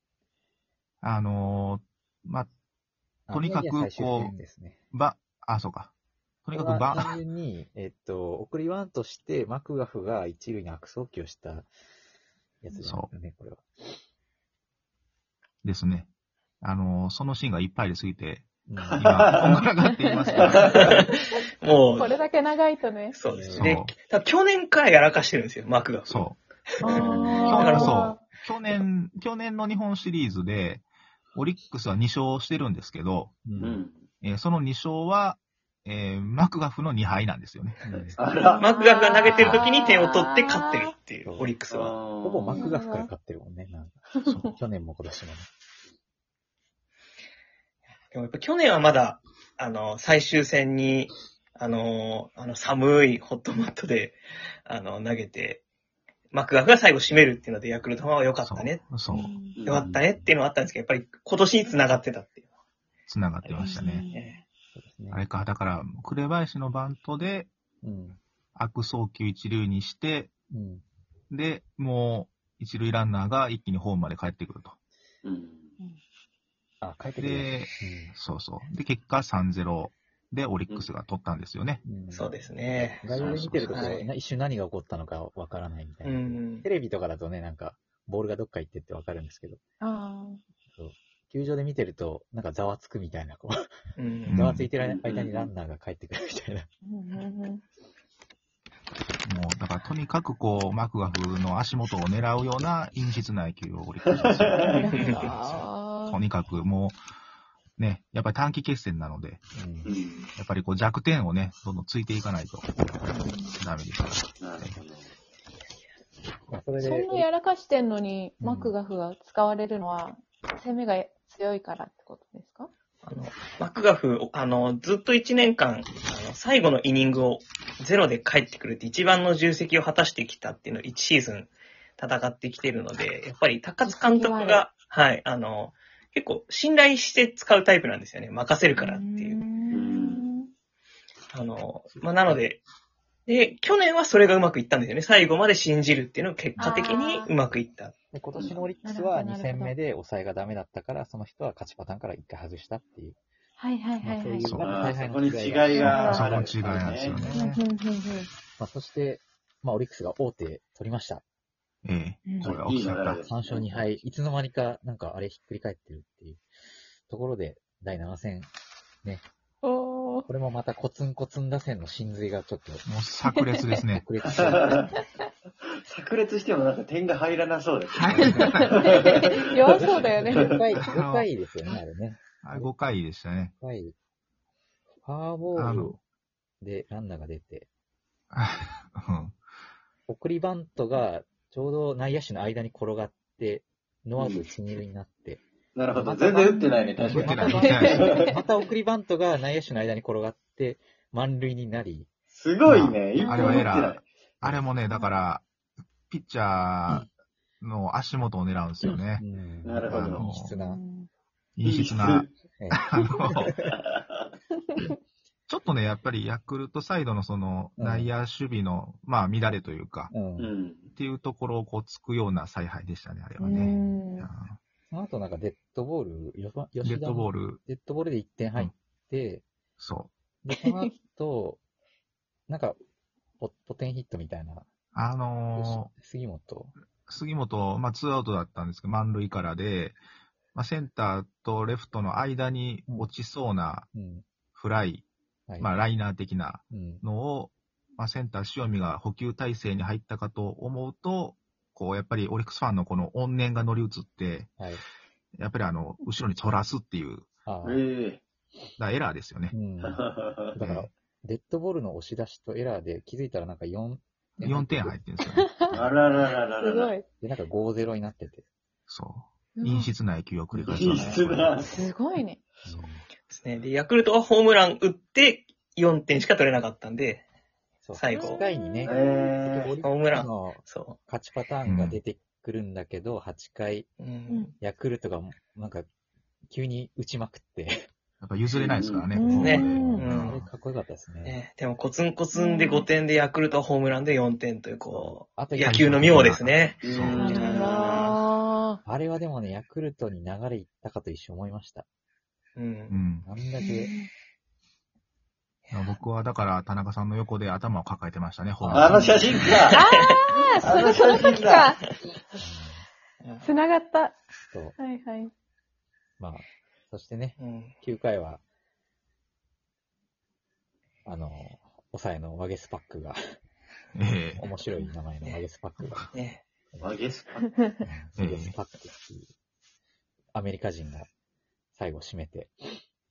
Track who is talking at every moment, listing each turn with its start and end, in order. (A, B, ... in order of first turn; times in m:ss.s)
0:01.0-0:02.5 A
0:03.3-0:04.8 B
0:03.3-0:04.4 A
0:04.9-0:05.9 A
0:06.4-0:07.2 A
0:06.5-0:11.7 B
0:12.6-0:14.0 B
0:15.6-0:16.1 A
0:16.6-0:18.5 A
0:18.7-0:19.0 B
0:18.8-0:19.6 C
0:19.0-0:21.0 A
0:20.1-0:20.6 D
0:20.4-0:20.9 C
0:20.8-0:22.2 E
0:21.9-0:23.2 D
0:23.1-0:26.3 E
0:23.3-0:23.8 B
0:23.5-0:23.9 A
0:26.1-0:26.4 A
0:26.8-0:28.2 D
0:26.9-0:27.6 C
0:26.9-0:28.1 E
0:27.1-0:27.8 B
0:27.5-0:30.8 A
0:31.4-0:33.4 A
0:33.5-0:33.8 B
0:33.6-0:34.1 C
0:34.2-0:37.8 A
0:37.8-0:38.2 B
0:38.2-0:38.7 C
0:38.4-0:40.9 D
0:38.6-0:42.0 E
0:39.4-0:39.7 A
0:41.2-0:41.5 B
0:41.7-0:42.7 C
0:42.2-0:45.5 B
0:42.5-0:43.1 D
0:48.1-0:55.6 E
0:56.3-0:58.8 E
0:58.4-0:59.3 A
0:59.1-0:59.6 D
0:59.6-0:59.8 C
0:59.6-1:02.4 E
0:59.8-1:00.4 B
1:03.1-1:04.1 A
1:03.4-1:04.4 E
1:03.6-1:04.4 D
1:04.8-1:05.2 B
1:05.1-1:07.5 A
1:07.8-1:08.2 B
1:08.6-1:10.3 A
1:10.5-1:10.8 B
1:11.3-1:14.8 A
1:15.2-1:15.8 C
1:16.8-1:18.2 B
1:17.2-1:21.8 A
1:21.8-1:29.6 B
1:22.1-1:23.1 E
1:23.1-1:23.9 A
1:23.2-1:24.0 C
1:23.7-1:24.1 E
1:26.0-1:26.7 E
1:29.8-1:30.4 D
1:30.7-1:33.7 B
1:34.0-1:34.4 E
1:34.2-1:34.7 A
1:34.3-1:36.7 B
1:34.8-1:35.5 C
1:36.8-1:37.6 D
1:39.2-1:47.0 A
1:44.2-1:44.8 C
1:44.6-1:46.2 D
1:44.9-1:45.3 E
1:47.8-1:49.4 A
1:49.6-1:49.9 B
1:49.8-1:50.3 C
1:50.4-1:53.0 A
1:53.2-1:53.6 D
1:53.6-1:54.3 A
1:54.4-1:55.1 C
1:56.5-1:57.3 B
1:56.8-2:02.7 D
1:58.4-1:58.7 B
2:03.0-2:19.4 E
2:13.8-2:14.6 D
2:18.7-2:20.5 D
2:19.7-2:20.2 C
2:21.3-2:22.6 E
2:23.3-2:28.0 E
2:26.6-2:27.3 D
2:28.1-2:33.2 B
2:28.4-2:28.8 C
2:28.8-2:29.8 D
2:33.6-2:34.5 D
2:34.0-2:37.6 B
2:34.4-2:34.7 A
2:34.6-2:37.2 C
2:35.8-2:36.3 D
2:35.8-2:37.6 A
2:37.3-2:38.3 D
2:38.6-2:41.2 B
2:41.8-2:43.2 A
2:42.3-2:42.5 D
2:42.4-2:43.9 C
2:43.2-2:46.4 B
2:47.1-2:48.5 B
2:49.6-2:50.3 D
2:50.3-2:52.8 B
2:52.8-2:54.0 A
2:54.0-2:54.9 B
2:54.3-2:54.8 C
2:55.8-3:00.6 C
2:58.0-3:00.6 D
2:58.1-2:58.5 A
2:58.2-2:58.6 B
2:59.8-3:02.7 B
3:00.9-3:01.3 A
3:02.4-3:03.5 A
3:03.6-3:04.0 B
3:05.0-3:06.0 B
3:05.5-3:06.0 A
3:06.6-3:07.7 B
3:08.3-3:09.4 A
3:10.1-3:15.4 B
3:14.2-3:14.5 C
3:15.8-3:18.3 C
3:15.9-3:22.1 B
3:16.5-3:18.4 D
3:17.1-3:18.0 A
3:22.3-3:24.1 C
3:22.7-3:25.4 A
3:23.2-3:23.7 D
3:24.9-3:25.2 D
3:26.1-3:27.1 A
3:27.6-3:29.2 A
3:29.2-3:30.8 B
3:29.6-3:30.2 C
3:29.9-3:30.5 A
3:30.3-3:31.1 D
3:31.6-3:33.5 A
3:31.6-3:32.3 C
3:33.5-3:34.4 C
3:35.5-3:40.1 A
3:37.8-3:38.1 B
3:40.1-3:40.5 B
3:40.4-3:40.9 C
3:41.0-3:44.6 A
3:43.4-3:44.3 D
3:44.9-3:49.4 B
3:46.8-3:47.6 A
3:49.8-3:50.1 A
3:50.4-3:51.6 B
3:50.6-3:50.9 D
3:52.5-3:52.8 B
3:53.4-3:54.7 B
3:54.9-3:55.9 A
3:55.6-3:56.7 B
3:57.1-4:00.0 A
4:00.5-4:03.9 A
4:03.9-4:04.2 B
4:04.5-4:05.1 A
4:05.6-4:14.5 A
4:06.7-4:07.0 B
4:15.4-4:17.3 A
4:17.5-4:17.8 B
4:17.6-4:18.2 C
4:18.8-4:19.5 A
4:19.5-4:20.0 B
4:19.8-4:20.6 C
4:20.5-4:25.0 B
4:20.6-4:20.9 A
4:24.4-4:25.5 A
4:25.4-4:25.8 D
4:25.7-4:26.9 C
4:26.6-4:27.1 D
4:27.2-4:28.5 B
4:28.9-4:31.4 A
4:29.6-4:29.9 D
4:30.5-4:31.9 C
4:30.7-4:31.7 B
4:31.6-4:32.4 D
4:32.7-4:33.0 B
4:33.3-4:37.2 E
4:37.8-4:43.9 B
4:38.0-4:38.4 E
4:38.1-4:39.1 D
4:38.8-4:39.7 C
4:39.8-4:41.0 E
4:41.6-4:42.0 A
4:44.0-4:44.5 E
4:44.6-4:45.9 B
4:46.5-4:47.7 B
4:48.2-4:50.5 A
4:48.5-4:49.1 C
4:49.1-4:50.0 D
4:49.2-4:51.4 B
4:49.4-4:50.4 E
4:51.2-4:58.2 E
4:52.3-4:52.9 D
4:54.9-4:56.7 B
4:55.6-4:57.2 A
4:56.8-4:58.0 C
4:57.2-4:58.8 D
4:58.9-5:01.9 B
5:02.6-5:03.0 E
5:02.9-5:03.3 A
5:03.2-5:03.9 B
5:03.6-5:04.1 D
5:05.7-5:09.4 A
5:08.6-5:09.5 B
5:08.7-5:09.8 C
5:09.7-5:11.8 D
5:10.5-5:11.7 C
5:12.4-5:12.9 B
5:13.2-5:13.5 E
5:13.4-5:14.2 D
5:14.5-5:14.8 B
5:14.8-5:15.3 D
5:16.2-5:18.4 B
5:17.4-5:17.7 E
5:21.0-5:23.2 B
5:24.0-5:24.4 A
5:24.4-5:26.2 B
5:26.1-5:26.4 E
5:26.8-5:27.5 C
5:27.4-5:27.8 D
5:27.8-5:29.3 B
5:28.2-5:28.6 A
5:30.3-5:31.1 B
5:31.7-5:32.8 B